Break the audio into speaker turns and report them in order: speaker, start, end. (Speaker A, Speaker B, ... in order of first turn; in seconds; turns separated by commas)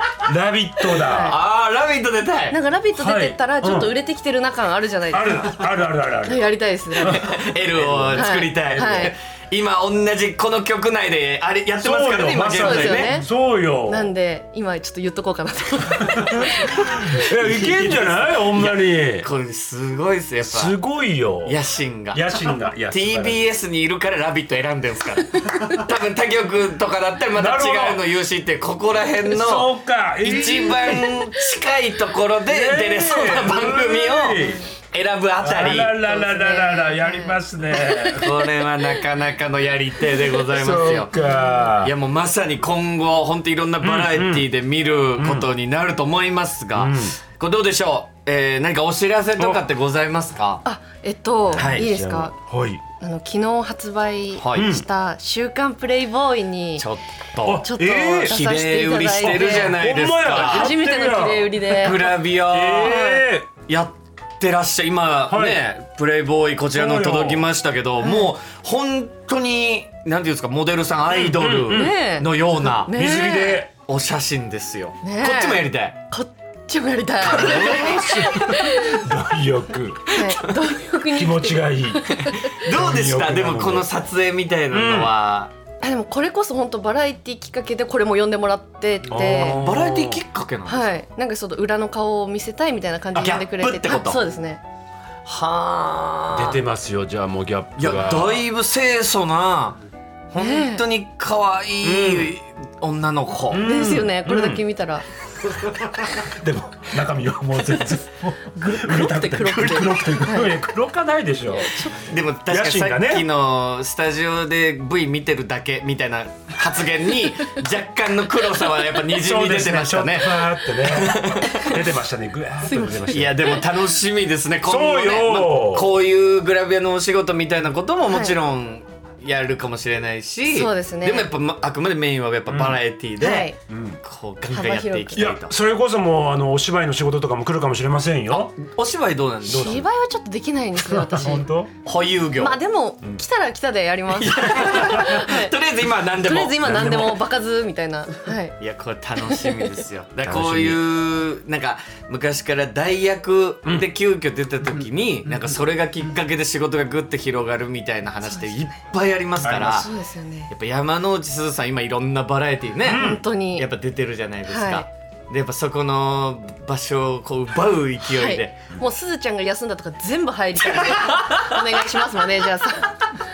Speaker A: 0.2-1.4, Speaker B: 0.9-2.6, Speaker C: 1.0-1.4, Speaker C: 2.5-5.7, Speaker A: 2.9-3.9, Speaker A: 5.1-9.1, Speaker C: 6.2-7.3, Speaker B: 7.0-13.2, Speaker C: 8.1-9.1, Speaker A: 11.8-14.1, Speaker C: 12.6-13.3, Speaker C: 13.9-17.2, Speaker A: 16.1-19.3, Speaker B: 17.2-20.8, Speaker A: 20.4-21.6, Speaker B: 21.4-35.9, Speaker A: 22.1-23.4, Speaker A: 27.3-28.0, Speaker A: 29.3-31.2, Speaker A: 32.5-34.6, Speaker C: 34.4-34.7, Speaker A: 35.4-38.3, Speaker C: 36.0-38.9, Speaker B: 38.1-41.2, Speaker A: 40.5-41.9, Speaker C: 41.1-41.7, Speaker B: 41.8-50.6, Speaker A: 43.8-44.5, Speaker A: 45.2-45.5, Speaker A: 46.7-47.2, Speaker C: 50.6-52.3, Speaker A: 51.5-52.8, Speaker B: 51.5-51.9, Speaker C: 53.0-56.9, Speaker B: 54.4-54.7, Speaker A: 54.5-54.9, Speaker B: 56.8-57.6, Speaker A: 57.5-58.4, Speaker C: 57.6-62.1, Speaker B: 58.2-60.7, Speaker A: 59.1-63.5, Speaker B: 61.7-63.1, Speaker C: 62.8-63.2, Speaker B: 63.7-73.0, Speaker A: 65.3-65.6, Speaker A: 66.7-67.5, Speaker C: 68.0-68.3, Speaker A: 71.1-72.0, Speaker C: 71.7-73.7, Speaker A: 72.9-73.7, Speaker B: 73.7-76.0, Speaker C: 75.0-79.1, Speaker A: 77.2-80.2, Speaker B: 77.2-78.2, Speaker C: 80.1-82.5, Speaker A: 81.1-83.9, Speaker B: 82.2-85.5, Speaker A: 84.7-85.1, Speaker C: 85.8-89.6, Speaker A: 89.1-90.2, Speaker B: 89.1-90.9, Speaker C: 90.7-94.6, Speaker B: 93.2-94.2, Speaker B: 95.3-96.6, Speaker A: 96.3-98.5, Speaker B: 97.8-99.8, Speaker B: 100.3-103.7, Speaker C: 100.4-100.8, Speaker A: 101.8-102.3, Speaker A: 103.5-104.6, Speaker C: 103.6-105.1, Speaker A: 106.2-111.9, Speaker C: 108.5-110.6, Speaker C: 111.5-112.0, Speaker B: 111.9-121.7, Speaker A: 112.5-113.3, Speaker A: 119.1-123.5, Speaker C: 121.5-121.8, Speaker C: 122.6-123.6, Speaker B: 123.0-133.5, Speaker A: 124.6-125.9, Speaker C: 128.1-128.4, Speaker C: 130.5-131.3, Speaker A: 132.5-132.8, Speaker C: 133.2-133.6, Speaker A: 133.7-134.0, Speaker B: 134.0-135.6, Speaker C: 134.5-135.3, Speaker A: 135.2-138.5, Speaker B: 138.3-139.8, Speaker A: 139.5-139.9, Speaker C: 139.5-141.5, Speaker A: 140.8-141.7, Speaker B: 141.8-142.6, Speaker C: 142.4-145.5, Speaker B: 144.1-147.2, Speaker A: 144.6-145.0, Speaker C: 146.2-148.6, Speaker A: 146.6-147.2, Speaker B: 148.6-159.9, Speaker C: 149.2-149.7, Speaker A: 150.2-150.8, Speaker A: 159.4-159.9, Speaker C: 159.7-160.5, Speaker B: 160.5-168.6, Speaker A: 162.8-163.2, Speaker C: 162.9-163.7, Speaker C: 164.5-164.9, Speaker C: 168.1-173.1, Speaker B: 170.8-171.5